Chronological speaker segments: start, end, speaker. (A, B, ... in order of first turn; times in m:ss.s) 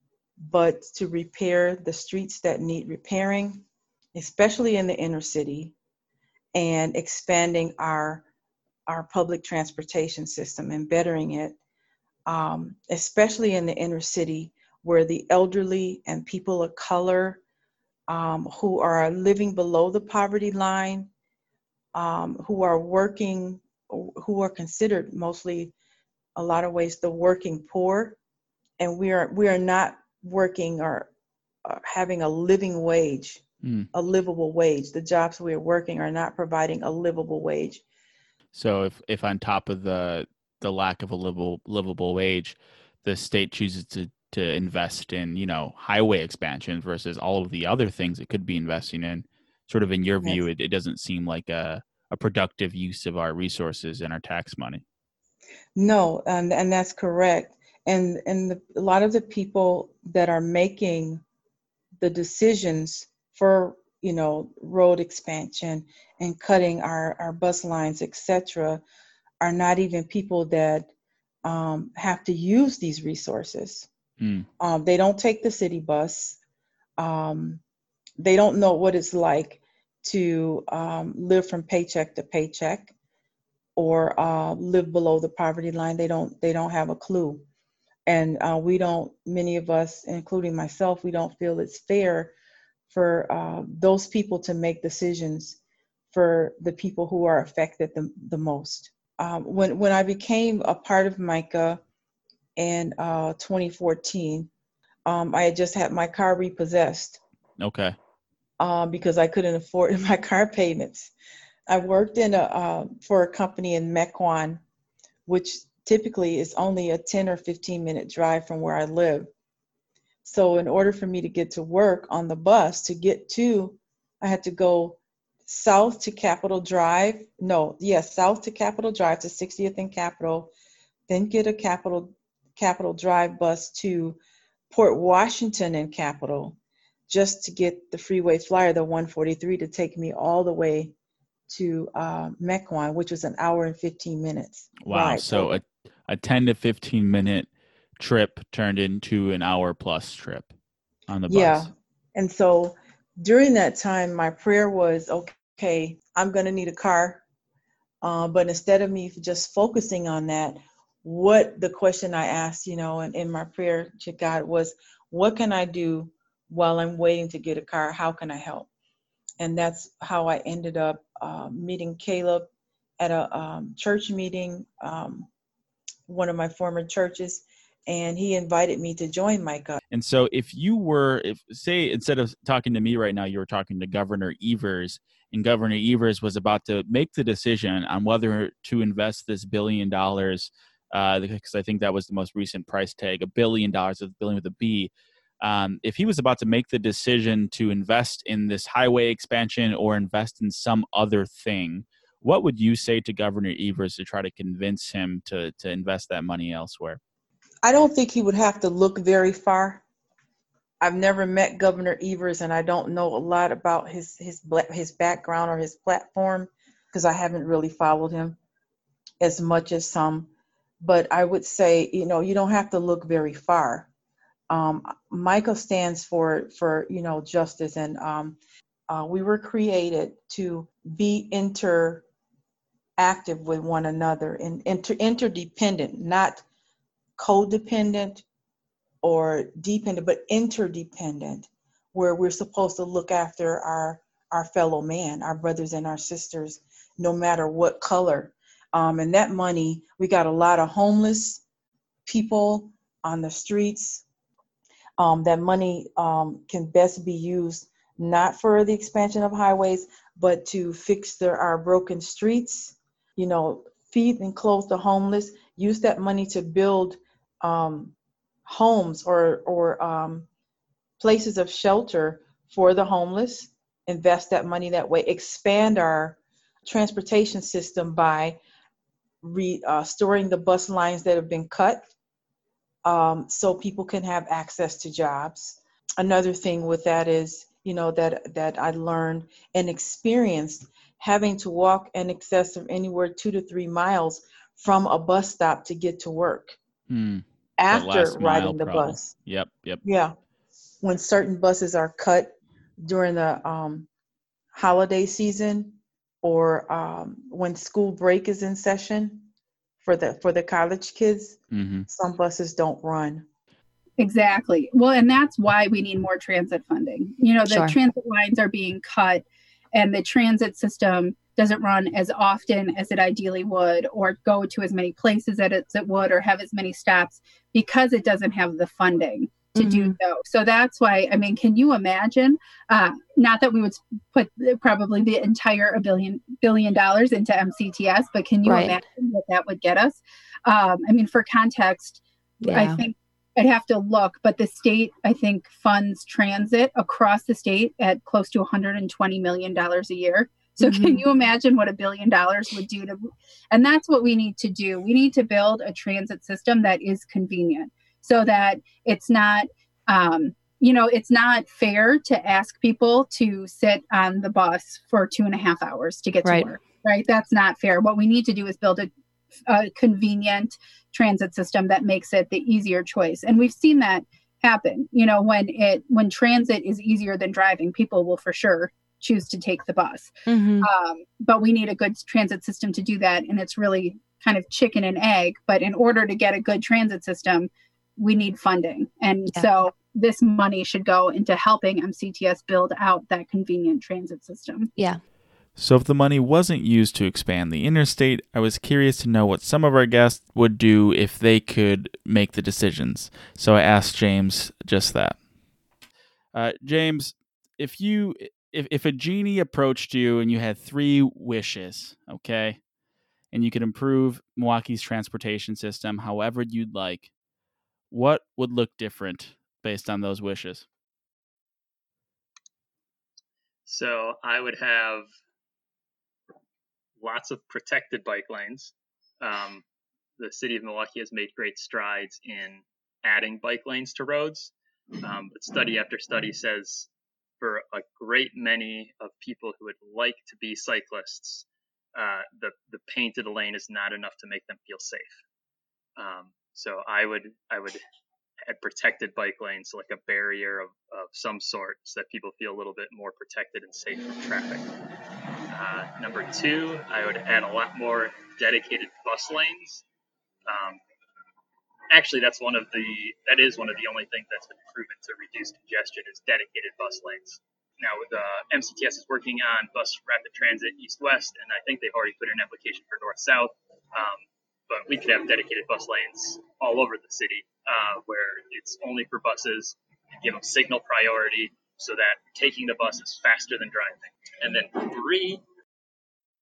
0:00.4-0:03.6 A
0:04.1-0:05.7 A
0:06.5-0:08.2 A
0:08.9-0:11.6 A
0:12.3-0:17.4 A
0:18.1-0:21.1 A
0:21.9-0:25.7 A
0:26.4-0:28.2 A
0:28.8-0:31.1 A
0:31.6-0:37.8 A
0:33.6-0:33.9 B
0:38.5-0:54.8 B
0:55.8-1:01.2 A
1:02.0-1:08.8 A
1:09.4-1:10.9 A
1:11.4-1:13.9 A
1:14.2-1:14.5 B
1:14.6-1:16.4 A
1:17.0-1:17.6 A
1:18.2-1:22.9 A
1:23.8-1:27.4 A
1:28.0-1:32.3 A
1:32.9-1:35.6 A
1:36.1-1:41.8 A
1:42.6-1:44.5 A
1:45.0-1:47.2 A
1:47.6-1:48.0 B
1:48.6-1:51.1 A
1:51.7-1:54.6 A
1:55.3-1:59.3 A
2:00.2-2:10.5 A
2:11.1-2:14.2 A
2:14.7-2:16.6 A
2:17.1-2:20.9 A
2:21.5-2:25.6 A
2:24.8-2:30.5 B
2:31.1-2:31.7 B
2:31.3-2:37.2 A
2:38.0-2:48.7 A
2:49.4-2:52.5 A
2:53.0-2:55.3 A
2:56.1-2:59.8 A
2:59.9-3:27.0 B
3:27.6-3:29.8 A
3:30.8-3:38.4 A
3:39.2-3:40.3 A
3:40.8-3:43.9 A
3:44.5-3:48.4 A
3:48.9-3:52.0 A
3:53.0-3:56.4 A
3:57.2-3:58.2 A
3:59.0-4:11.4 A
4:12.0-4:14.0 A
4:15.0-4:27.9 A
4:28.5-4:30.3 A
4:31.0-4:38.4 A
4:39.2-4:41.9 A
4:42.8-4:56.6 A
4:56.9-4:59.8 B
4:57.6-4:59.1 A
4:59.8-5:00.1 A
5:00.8-5:03.9 A
5:04.5-5:09.3 A
5:09.8-5:13.2 A
5:11.5-5:11.8 B
5:14.0-6:08.9 C
5:17.5-5:17.8 D
5:29.5-5:30.0 D
5:38.4-5:38.8 D
5:42.4-5:42.8 D
5:50.6-5:51.0 D
6:06.2-6:06.5 D
6:09.5-6:34.7 C
6:20.3-6:20.7 D
6:34.8-6:35.0 D
6:35.6-6:45.2 B
6:46.3-6:52.6 B
6:53.3-6:57.1 B
6:57.9-7:00.7 B
7:03.7-7:05.1 E
7:07.0-7:09.6 E
7:10.2-7:16.9 E
7:17.4-7:25.2 E
7:26.0-7:27.8 E
7:28.4-7:34.7 E
7:35.5-7:39.8 E
7:40.5-7:40.8 E
7:41.9-8:05.4 E